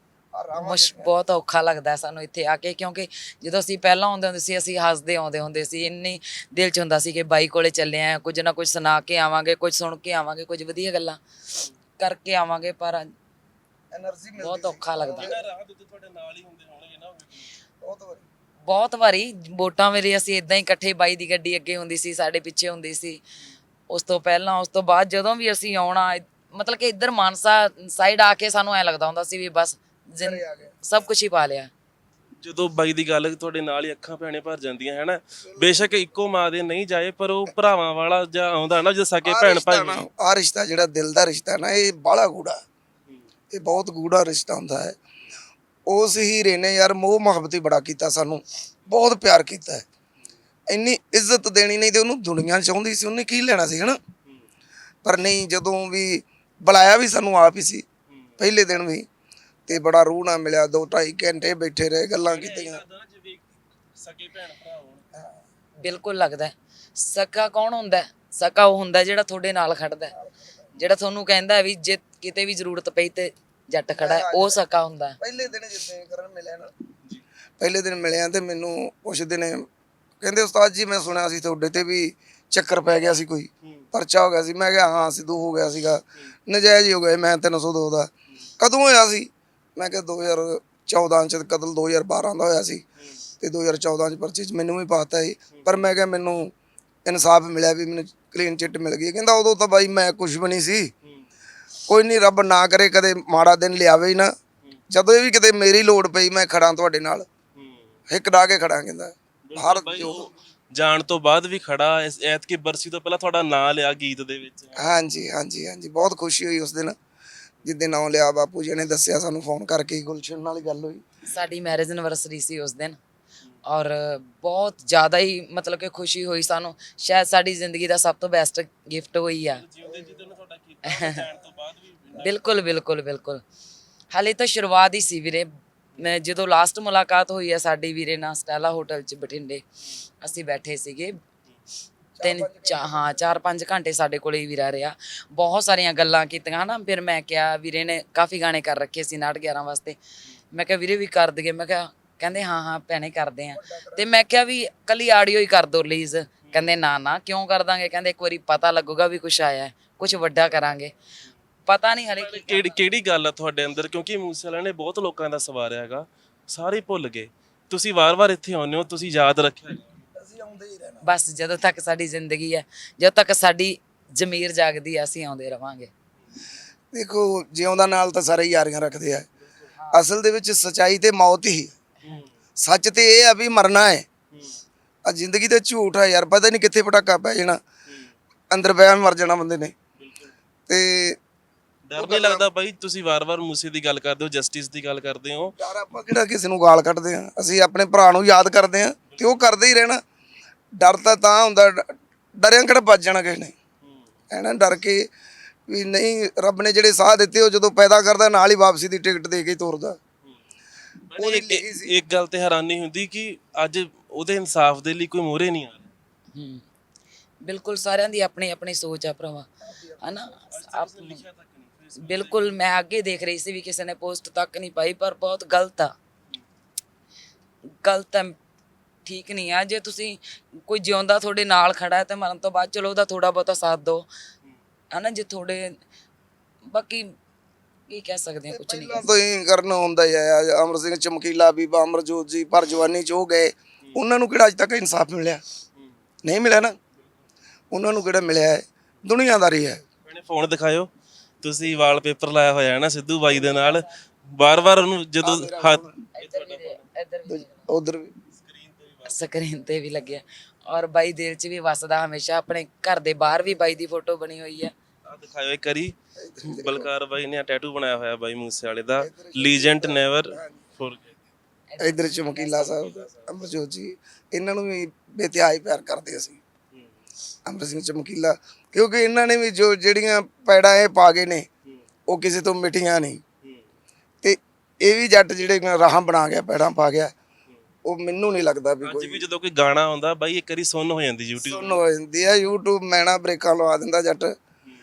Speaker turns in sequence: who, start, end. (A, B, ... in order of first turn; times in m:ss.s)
0:00.4-0:01.1 A
0:00.6-0:13.0 B
0:13.9-0:15.4 A
0:14.4-0:15.4 B
0:15.2-0:17.5 C
0:17.8-0:18.3 A
0:18.7-0:23.2 B
0:23.9-0:31.7 B
0:30.2-0:30.8 A
0:32.4-0:40.1 C
0:35.4-0:35.9 A
0:39.2-0:42.6 A
0:43.5-0:45.0 A
0:45.9-0:49.8 A
0:50.7-0:54.0 A
0:55.0-0:57.9 A
0:58.1-0:58.4 C
0:58.4-0:59.1 A
0:59.7-1:02.8 A
1:02.2-1:03.4 C
1:04.0-1:05.1 C
1:05.8-1:10.1 B
1:10.2-1:10.6 A
1:10.8-1:15.2 B
1:14.0-1:14.6 A
1:15.2-1:16.7 A
1:17.6-1:19.6 A
1:20.2-1:32.8 A
1:33.4-1:36.5 A
1:35.5-1:35.9 C
1:37.1-1:40.9 A
1:41.9-1:44.3 A
1:44.9-1:47.3 A
1:47.6-1:48.0 C
1:48.1-1:50.3 A
1:49.5-1:54.9 C
1:54.8-1:57.0 A
1:57.6-2:01.0 A
2:01.3-2:03.0 B
2:03.7-2:09.6 B
2:09.5-2:12.5 C
2:09.8-2:10.2 A
2:10.9-2:11.2 B
2:12.2-2:13.4 B
2:14.1-2:15.5 B
2:16.0-2:19.6 B
2:20.2-2:21.1 B
2:22.2-2:23.1 A
2:22.2-2:30.0 B
2:30.5-2:40.9 B
2:33.6-2:34.0 A
2:36.5-2:36.8 C
2:41.7-2:42.8 B
2:42.2-2:50.0 C
2:50.2-2:51.0 A
2:51.0-2:55.9 B
2:56.9-2:59.3 A
2:59.8-3:00.1 B
2:59.9-3:01.7 A
3:02.0-3:02.3 C
3:02.6-3:04.1 A
3:04.3-3:04.6 C
3:05.1-3:07.6 A
3:07.9-3:08.1 C
3:08.5-3:09.7 A
3:10.0-3:10.3 C
3:10.7-3:11.2 A
3:11.9-3:15.5 C
3:12.0-3:12.4 A
3:15.6-3:20.0 A
3:19.1-3:19.4 C
3:20.8-3:23.6 A
3:23.8-3:24.1 C
3:24.3-3:25.0 A
3:25.7-3:30.0 A
3:31.1-3:35.9 C
3:31.2-3:32.0 A
3:36.4-3:36.6 B
3:37.5-3:39.5 B
3:39.7-3:40.3 A
3:40.0-3:41.2 B
3:40.5-3:42.6 C
3:42.0-3:45.9 B
3:47.8-3:48.4 B
3:49.1-3:54.1 B
3:54.9-3:55.6 B
3:56.7-3:57.0 B
3:57.9-3:59.1 B
3:58.5-4:05.4 A
4:06.2-4:06.8 A
4:07.7-4:09.8 A
4:10.0-4:10.9 C
4:11.4-4:16.8 C
4:13.3-4:14.0 B
4:15.2-4:16.1 A
4:16.2-4:17.7 B
4:17.3-4:18.1 A
4:18.3-4:19.2 C
4:19.1-4:24.7 B
4:25.1-4:31.2 C
4:26.2-4:26.9 A
4:29.0-4:30.7 A
4:31.7-4:32.8 B
4:31.8-4:36.4 A
4:32.6-4:33.3 C
4:37.5-4:41.5 A
4:42.1-4:43.2 A
4:43.4-4:43.7 C
4:44.2-4:47.1 A
4:47.8-4:49.2 A
4:48.8-4:51.8 C
4:51.4-4:54.3 A